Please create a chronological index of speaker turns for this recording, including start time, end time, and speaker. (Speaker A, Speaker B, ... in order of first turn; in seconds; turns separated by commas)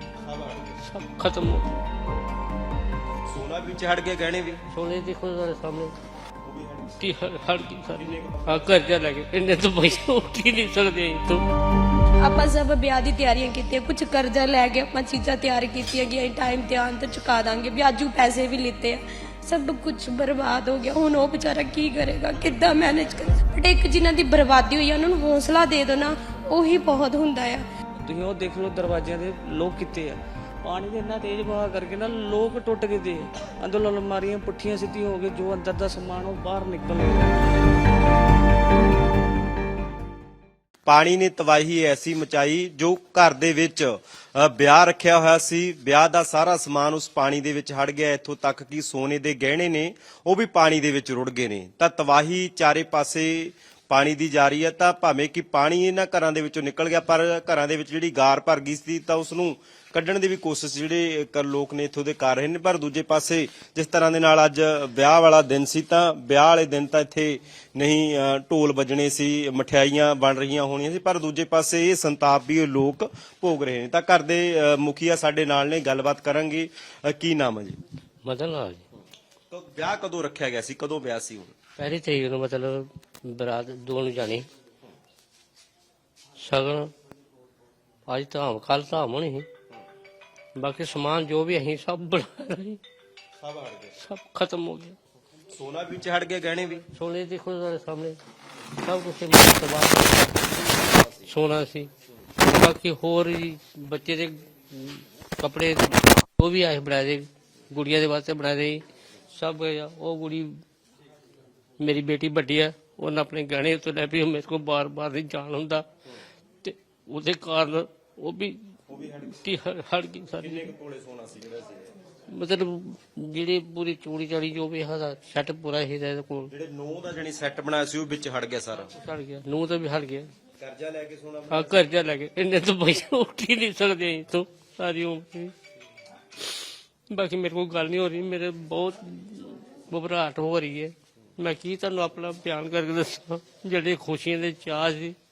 Speaker A: 0.2-0.8, Speaker B: 0.8-1.8, Speaker A: 3.3-4.6, Speaker B: 4.7-5.9, Speaker A: 6.4-7.2, Speaker B: 7.0-11.4, Speaker A: 7.9-9.0, Speaker C: 12.2-27.6, Speaker D: 28.0-37.4, Speaker A: 40.9-77.8, Speaker B: 78.2-78.8, Speaker A: 79.5-81.5, Speaker B: 81.8-84.4, Speaker B: 86.4-86.9, Speaker B: 88.0-89.5, Speaker B: 90.6-92.8, Speaker A: 93.4-93.9, Speaker B: 94.0-95.0, Speaker A: 95.5-96.8, Speaker B: 96.9-98.2, Speaker B: 98.8-100.4, Speaker A: 100.6-101.3, Speaker B: 101.2-101.9, Speaker B: 102.4-108.8, Speaker B: 109.3-110.5, Speaker B: 111.8-115.8, Speaker B: 116.6-118.6, Speaker A: 118.9-119.4, Speaker B: 119.2-120.7, Speaker A: 120.4-121.9, Speaker B: 122.3-126.5, Speaker A: 126.5-128.9, Speaker B: 128.9-130.3, Speaker A: 130.6-132.0, Speaker B: 131.5-135.5, Speaker B: 137.1-145.2